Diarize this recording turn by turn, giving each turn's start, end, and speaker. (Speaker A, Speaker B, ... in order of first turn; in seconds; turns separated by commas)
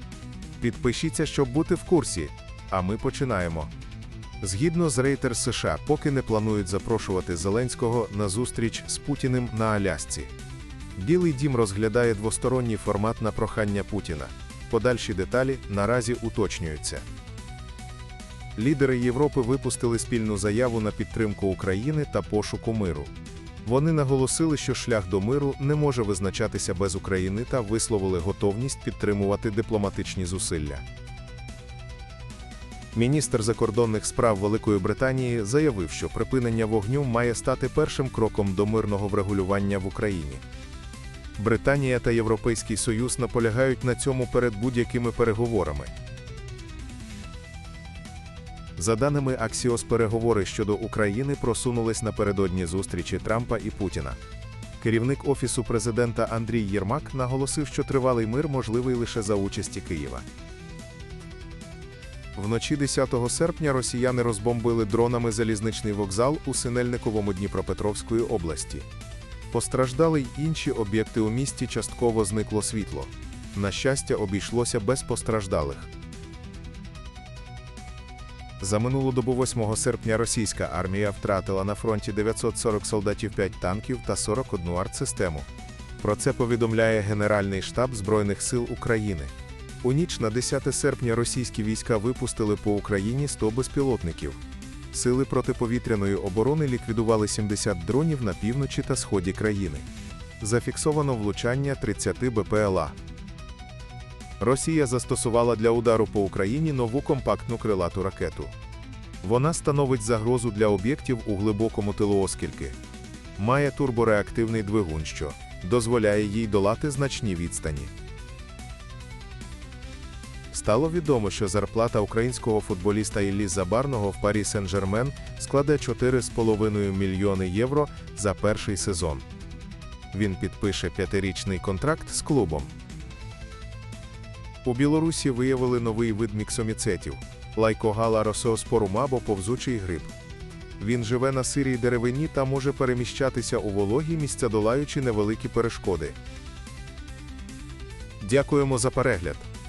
Speaker A: 0.6-3.7, Speaker A: 4.4-10.3, Speaker A: 10.9-17.1, Speaker A: 18.6-23.1, Speaker A: 23.6-30.8, Speaker A: 32.9-40.4, Speaker A: 41.4-45.9, Speaker A: 48.8-54.2, Speaker A: 54.8-60.2, Speaker A: 62.3-68.9, Speaker A: 69.5-75.9, Speaker A: 78.6-85.5, Speaker A: 86.0-99.9, Speaker A: 100.4-103.0, Speaker A: 104.4-108.5, Speaker A: 109.2-112.8, Speaker A: 113.4-117.9, Speaker A: 120.5-129.2, Speaker A: 130.1-132.7, Speaker A: 134.6-140.1, Speaker A: 140.8-146.2, Speaker A: 148.2-149.5